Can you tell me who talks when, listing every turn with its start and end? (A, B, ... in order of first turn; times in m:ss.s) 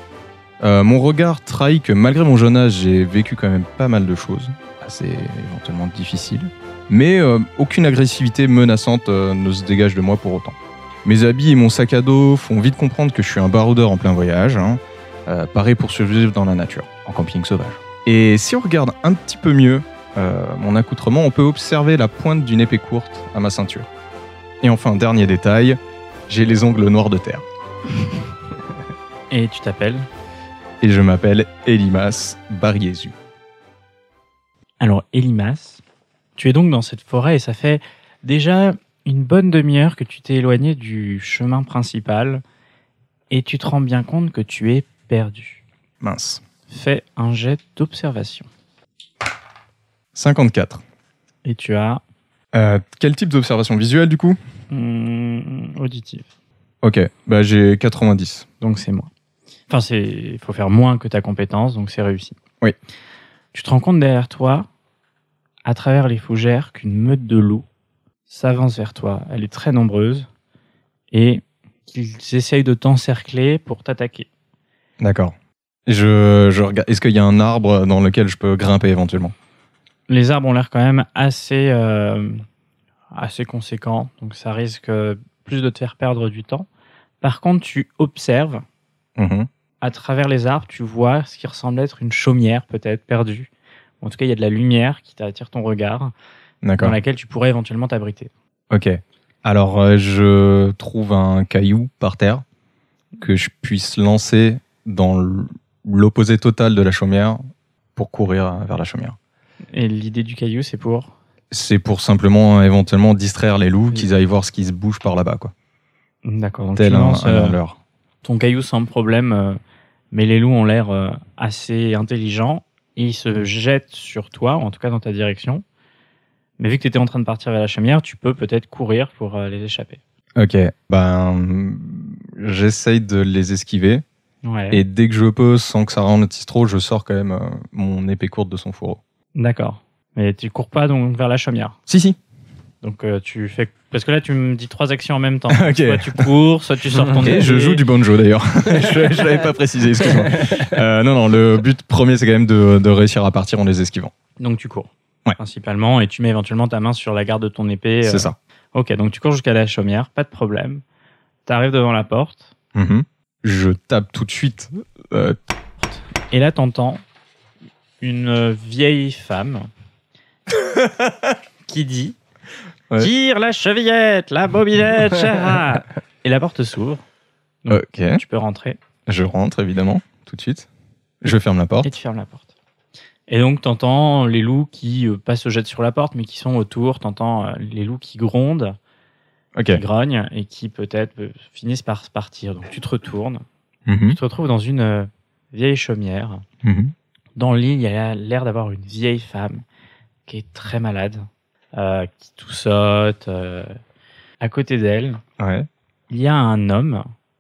0:00.6-0:23.9 A
0:24.6-0:27.4 A
0:29.3-0:30.1 B
0:30.8-0:33.2 A
0:34.8-0:35.8 B
0:36.4-0:42.4 B
0:43.3-0:45.6 B
0:46.0-0:46.4 A
0:46.7-0:48.5 B
0:50.1-0:50.8 A
0:51.4-0:52.0 B
0:52.5-0:54.4 A
0:54.7-0:56.3 B
0:56.8-0:58.5 A
0:58.6-0:59.1 B
0:59.7-1:02.4 B
1:03.5-1:04.7 B
1:05.6-1:07.6 B
1:08.3-1:10.3 B
1:11.1-1:14.3 B
1:15.0-1:15.3 A
1:15.8-1:19.3 A
1:20.1-1:22.4 B
1:23.1-1:26.7 B
1:27.2-1:28.6 B
1:29.2-1:29.5 A
1:29.8-1:33.5 B
1:34.0-1:36.1 B
1:36.6-1:37.0 A
1:36.8-1:38.3 B
1:38.7-1:42.4 A
1:43.2-1:47.4 A
1:48.0-1:49.2 A
1:49.7-1:51.1 B
1:51.5-1:55.5 A
1:56.2-1:57.6 B
1:56.8-1:57.8 A
1:58.2-1:59.6 B
2:00.1-2:05.6 B
2:06.6-2:10.0 B
2:10.4-2:14.0 A
2:14.4-2:14.8 B
2:14.7-2:19.0 A
2:19.4-2:21.8 B
2:21.9-2:22.2 A
2:22.8-2:27.8 B
2:25.5-2:26.3 A
2:27.1-2:34.1 A
2:34.4-2:40.8 B
2:38.0-2:38.4 A
2:41.4-2:42.5 B
2:42.7-2:45.4 A
2:45.9-2:47.0 B
2:48.0-2:49.7 B
2:50.5-2:51.3 A
2:51.7-2:52.2 B
2:53.0-2:57.0 B
2:57.6-2:58.8 B
2:57.7-2:58.2 A
2:59.1-3:00.7 A
3:01.2-3:01.9 A
3:01.8-3:02.5 B
3:03.3-3:08.8 B
3:09.5-3:09.8 A
3:09.7-3:13.4 B
3:13.8-3:14.2 A
3:14.1-3:16.4 B
3:16.6-3:16.9 A
3:17.4-3:19.6 B
3:20.2-3:23.8 B
3:24.4-3:25.2 B
3:25.4-3:25.7 A
3:26.1-3:27.0 B